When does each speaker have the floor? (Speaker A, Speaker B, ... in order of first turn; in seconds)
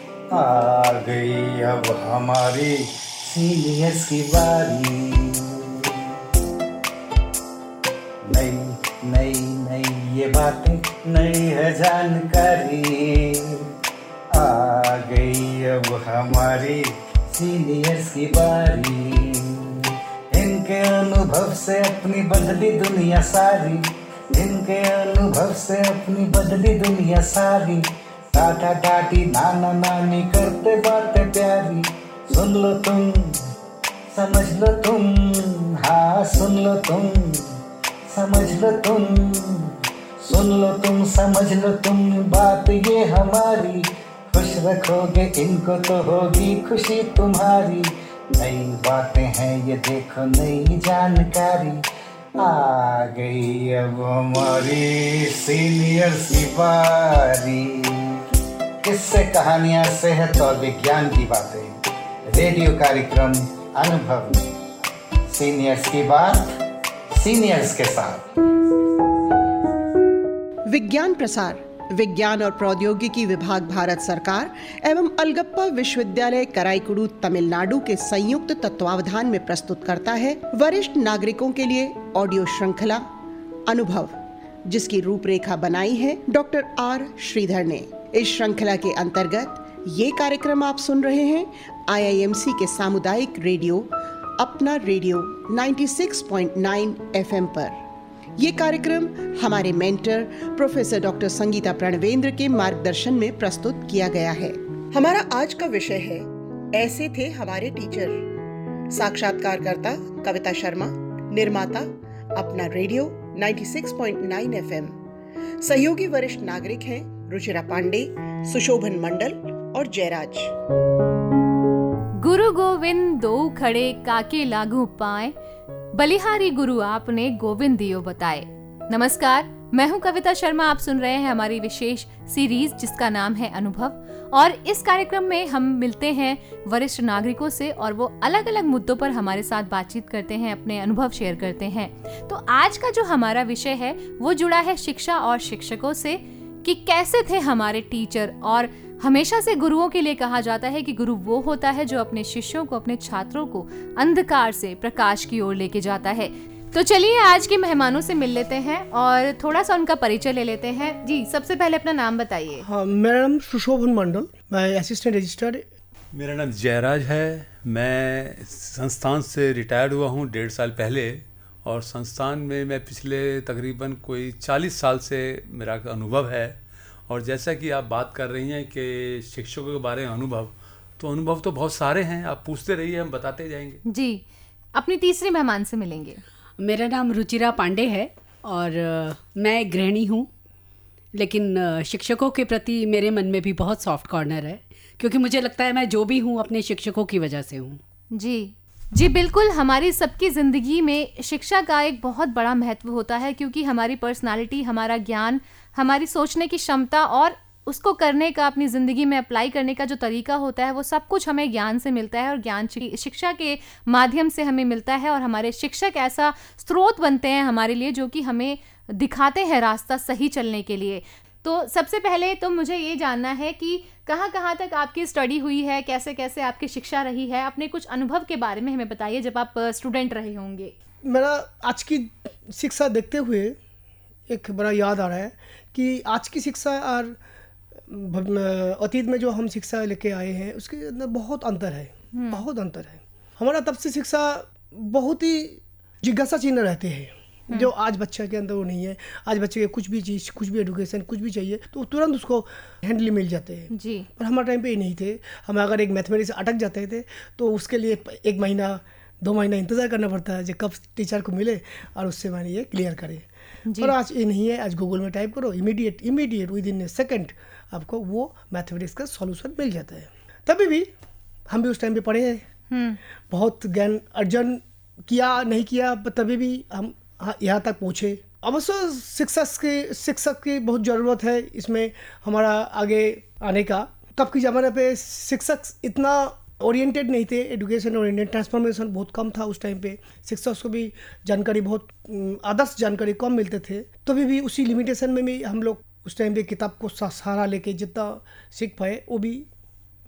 Speaker A: 0.3-5.5, 8.2-13.6, 14.3-19.8, 20.3-33.4, 34.1-37.4, 38.1-51.8, 52.4-58.2, 58.8-61.7, 62.3-64.5, 65.3-66.5, 67.1-68.3
Speaker B: 70.7-83.0, 83.7-84.1, 84.7-97.7, 98.4-108.3, 108.9-114.9, 115.6-120.5
Speaker C: 122.2-125.3, 125.9-162.6, 183.9-184.2, 184.7-186.2, 198.1-230.7, 242.1-242.4, 253.7-254.1, 263.7-263.9, 272.7-273.0
Speaker D: 162.6-165.6, 231.0-233.5, 234.3-237.2, 237.9-263.2, 263.8-270.9, 271.5-272.4, 273.3-299.4
Speaker E: 166.1-176.6, 177.1-183.8
Speaker F: 186.6-190.3, 191.1-197.8